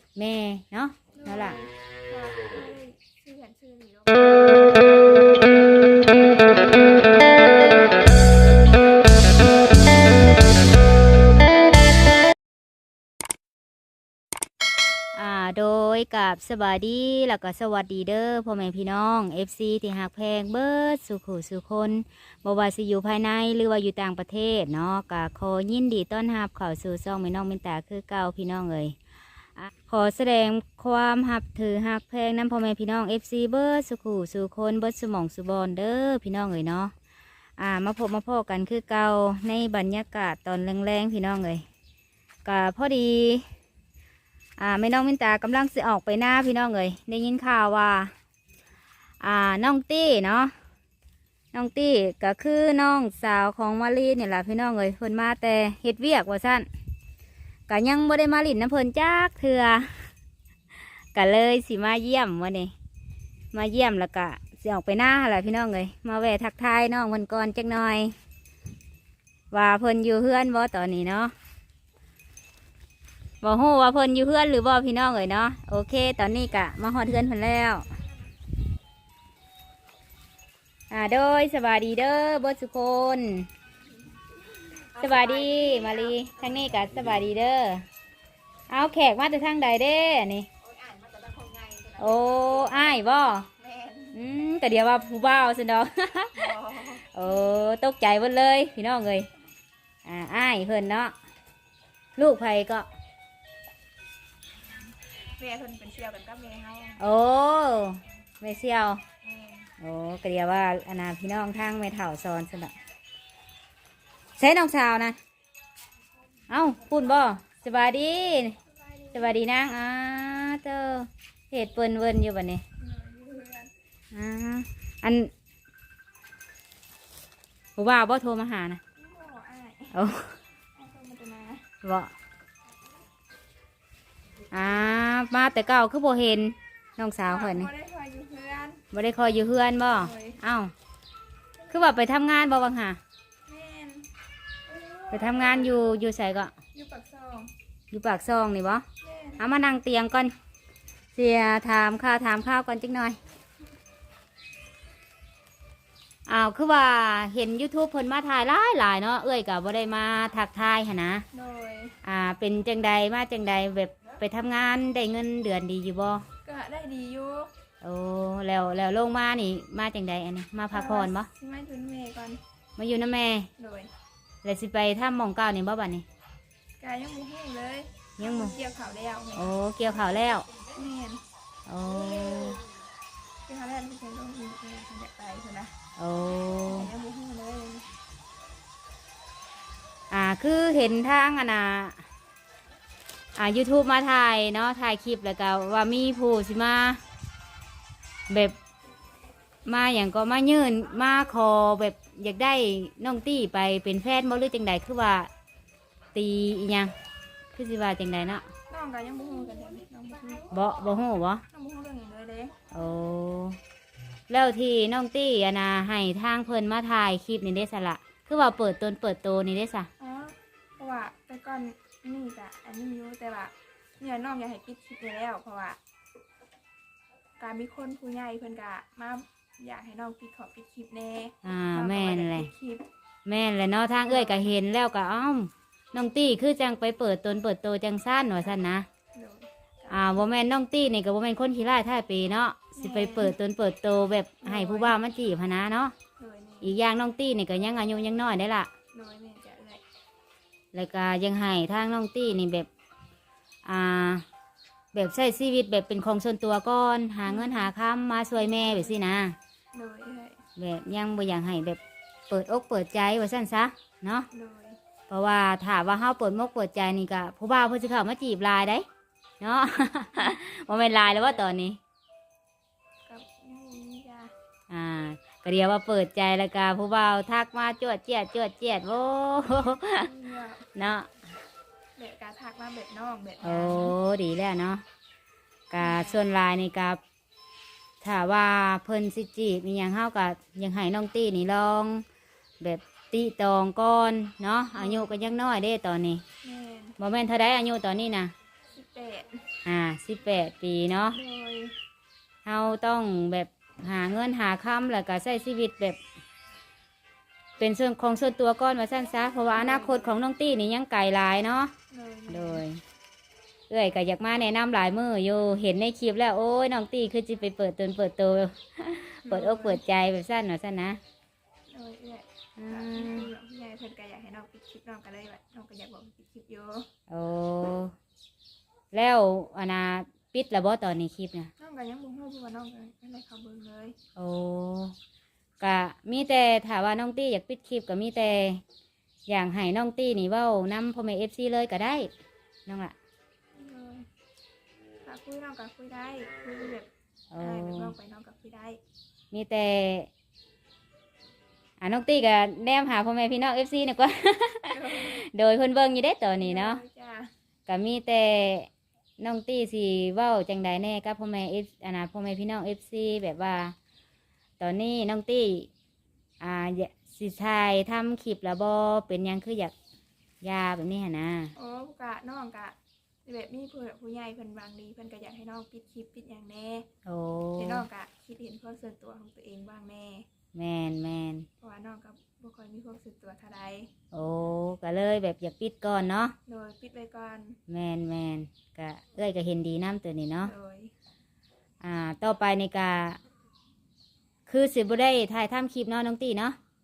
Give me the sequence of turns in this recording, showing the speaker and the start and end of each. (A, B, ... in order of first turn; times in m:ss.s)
0:00.2-0:01.6 A
0:01.1-0:07.7 B
0:15.2-0:29.0 A
0:29.6-0:36.9 A
0:37.6-0:41.6 A
0:42.4-0:43.5 A
0:44.6-0:48.1 A
0:49.2-0:50.5 A
0:51.5-0:56.7 A
0:57.7-1:00.1 A
1:01.2-1:02.7 A
1:03.5-1:08.2 A
1:09.5-1:11.3 A
1:13.4-1:17.9 A
1:20.9-1:23.5 A
1:24.6-1:26.7 B
1:25.0-1:27.8 A
1:28.7-1:30.5 A
1:30.6-1:32.9 B
1:32.0-1:33.5 A
1:33.6-1:34.2 B
1:34.1-1:39.3 A
1:36.3-1:37.5 B
1:40.0-1:41.1 A
1:42.2-1:42.9 A
1:45.2-1:47.0 B
1:47.0-1:49.0 A
1:49.2-1:49.7 B
1:49.8-1:52.7 A
1:54.4-1:55.2 A
1:56.5-1:58.6 A
1:58.7-1:59.4 B
1:59.1-2:02.6 A
2:02.8-2:03.7 B
2:04.1-2:05.3 A
2:07.8-2:08.8 A
2:09.0-2:10.0 B
2:09.9-2:10.4 A
2:10.8-2:11.7 B
2:11.8-2:12.1 A
2:14.5-2:17.7 A
2:17.3-2:18.9 B
2:18.9-2:20.7 A
2:19.8-2:20.4 B
2:21.7-2:23.0 A
2:23.5-2:24.1 B
2:24.7-2:25.7 B
2:25.1-2:26.5 A
2:26.7-2:27.5 B
2:27.9-2:28.8 A
2:29.0-2:29.5 B
2:29.4-2:30.3 A
2:31.2-2:33.2 A
2:36.3-2:41.2 A
2:41.3-2:42.0 B
2:42.0-2:46.2 A
2:46.4-2:47.5 B
2:47.8-2:51.3 A
2:50.7-2:52.4 B
2:52.8-2:53.5 A
2:53.6-2:53.9 B
2:54.4-2:56.1 A
2:56.8-2:59.6 B
2:58.2-2:58.6 A
2:59.3-3:00.5 A
3:00.5-3:01.2 B
3:01.7-3:02.6 A
3:03.4-3:05.8 B
3:06.0-3:06.9 A
3:06.6-3:07.9 B
3:10.1-3:12.0 A
3:13.4-3:17.0 A
3:18.3-3:18.6 A
3:19.7-3:25.3 A
3:26.1-3:26.9 A
3:27.5-3:28.5 A
3:28.7-3:30.5 B
3:30.5-3:31.4 A
3:31.5-3:32.6 B
3:32.7-3:33.6 A
3:34.3-3:39.9 A
3:40.0-3:45.8 B
3:47.4-3:52.9 B
3:51.4-3:52.5 A
3:53.3-3:58.9 A
3:54.1-3:54.5 B
3:59.1-4:00.2 B
3:59.9-4:06.0 A
4:02.8-4:03.4 B
4:04.4-4:05.0 B
4:06.2-4:06.8 B
4:06.6-4:08.7 A
4:08.9-4:09.8 B
4:10.7-4:12.7 A
4:13.6-4:14.2 A
4:14.9-4:19.4 A
4:17.2-4:17.7 B
4:18.4-4:19.0 B
4:19.7-4:20.4 B
4:20.6-4:24.3 A
4:24.3-4:24.8 B
4:25.1-4:28.8 A
4:29.4-4:31.8 A
4:31.0-4:31.5 B
4:33.1-4:34.3 B
4:34.7-4:40.1 A
4:40.0-4:40.7 B
4:40.8-4:41.1 A
4:42.0-4:44.0 B
4:43.4-4:44.8 A
4:45.7-4:47.0 A
4:45.8-4:46.2 B
4:48.0-4:52.0 A
4:52.6-4:56.2 A
4:54.8-4:55.2 B
4:56.4-4:57.0 B
4:57.0-4:58.3 A
4:58.7-4:59.5 B
4:59.6-5:01.2 A
5:01.1-5:01.8 B
5:02.4-5:06.0 A
5:07.6-5:11.7 A
5:09.5-5:10.2 B
5:11.9-5:12.6 B
5:12.3-5:12.8 A
5:13.7-5:21.0 A
5:19.2-5:19.8 B
5:21.7-5:26.9 B
5:22.6-5:23.3 A
5:27.1-5:27.9 A
5:28.9-5:31.5 A
5:31.6-5:34.0 B
5:34.2-5:35.0 A
5:35.6-5:38.6 A
5:39.3-5:42.1 A
5:42.7-5:43.0 A
5:43.6-5:44.1 B
5:45.0-5:48.8 B
5:47.3-5:47.9 A
5:49.3-5:50.1 A
5:51.8-5:56.8 A
5:54.7-5:55.2 B
5:56.4-5:57.3 B
5:57.7-6:03.8 A
6:04.6-6:05.7 A
6:06.4-6:09.7 A
6:10.4-6:11.5 A
6:11.6-6:16.9 B
6:17.0-6:17.9 A
6:17.6-6:20.3 B
6:20.5-6:21.5 A
6:21.6-6:23.9 B
6:24.1-6:26.4 A
6:26.5-6:27.6 B
6:27.7-6:30.5 A
6:30.4-6:30.9 B
6:31.8-6:33.2 A
6:34.5-6:36.6 A